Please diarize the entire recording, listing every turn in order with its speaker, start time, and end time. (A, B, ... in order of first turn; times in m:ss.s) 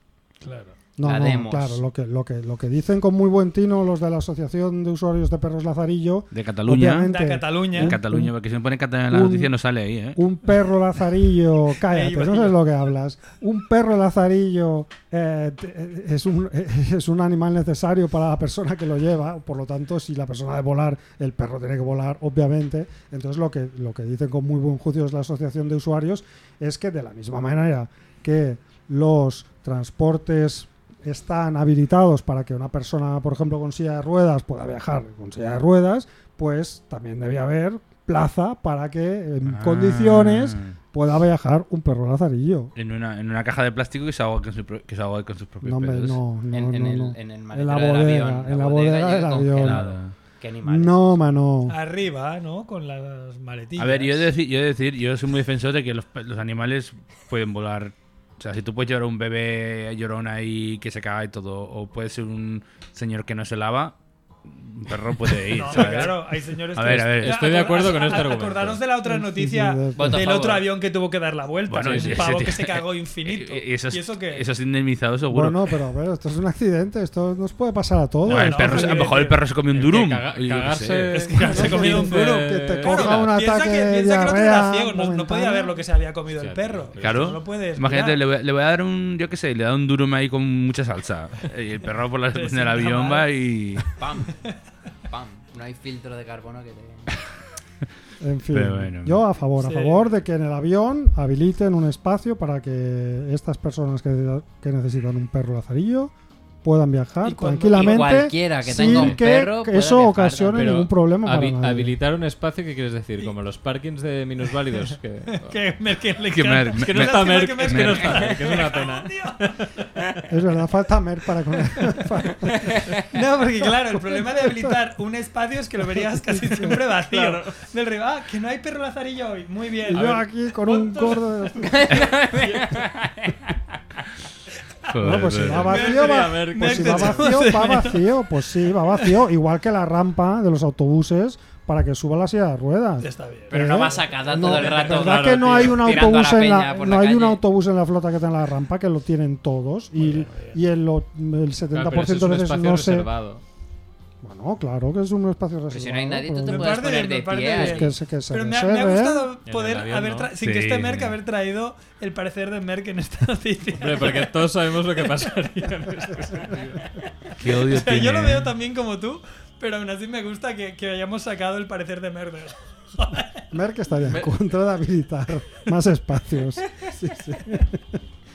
0:00.4-0:00.8 A
0:01.0-0:08.3 B
0:01.0-0:01.8 C
0:06.3-0:07.1 D
0:07.0-0:08.0 A
0:07.7-0:10.2 D
0:09.1-0:09.5 B
0:10.1-0:42.7 B
0:11.8-0:12.6 A
0:39.4-0:40.8 D
0:42.8-0:46.2 D
0:45.6-0:49.8 B
0:46.5-0:51.2 C
0:49.5-0:50.1 D
0:50.6-0:51.8 B
0:51.7-0:54.3 A
0:53.8-1:04.0 D
1:04.5-1:07.9 D
1:05.5-1:14.5 A
1:07.2-1:08.8 E
1:09.0-1:10.3 B
1:10.0-1:10.7 C
1:11.7-1:15.6 D
1:11.8-1:12.4 E
1:15.3-1:19.1 B
1:18.3-1:21.2 D
1:18.3-1:19.4 A
1:19.7-1:23.2 E
1:21.1-1:28.2 A
1:21.5-1:25.8 B
1:26.3-1:27.3 E
1:27.0-1:33.9 D
1:32.3-1:33.8 A
1:34.0-1:34.4 C
1:35.1-1:37.1 C
1:38.2-1:46.1 B
1:38.5-1:39.2 D
1:39.6-1:40.0 A
1:46.6-1:52.0 B
1:47.2-1:48.2 A
1:47.7-1:50.7 C
1:48.8-1:49.2 E
1:50.5-1:55.6 E
1:55.3-1:59.6 A
1:56.3-1:58.2 D
1:56.8-2:00.2 E
2:00.3-2:02.9 B
2:01.7-2:02.1 A
2:03.0-2:11.5 A
2:04.0-2:04.8 B
2:05.8-2:06.8 B
2:06.8-2:07.6 E
2:09.9-2:12.1 B
2:09.9-2:10.2 E
2:11.6-2:13.6 C
2:12.3-2:12.9 E
2:14.9-2:15.7 D
2:15.0-2:33.1 B
2:15.5-2:17.4 E
2:15.7-2:18.1 A
2:23.0-2:23.9 A
2:23.5-2:27.4 C
2:23.9-2:26.1 E
2:30.0-2:30.6 A
2:31.7-2:33.4 E
2:34.2-2:36.9 B
2:35.7-2:37.9 C
2:36.5-2:44.4 A
2:37.4-2:39.3 B
2:39.4-2:40.3 E
2:40.4-2:41.1 D
2:43.8-2:46.8 E
2:45.0-2:45.7 A
2:47.4-2:48.5 D
2:47.4-2:53.5 A
2:53.5-2:58.0 B
2:54.1-2:54.3 E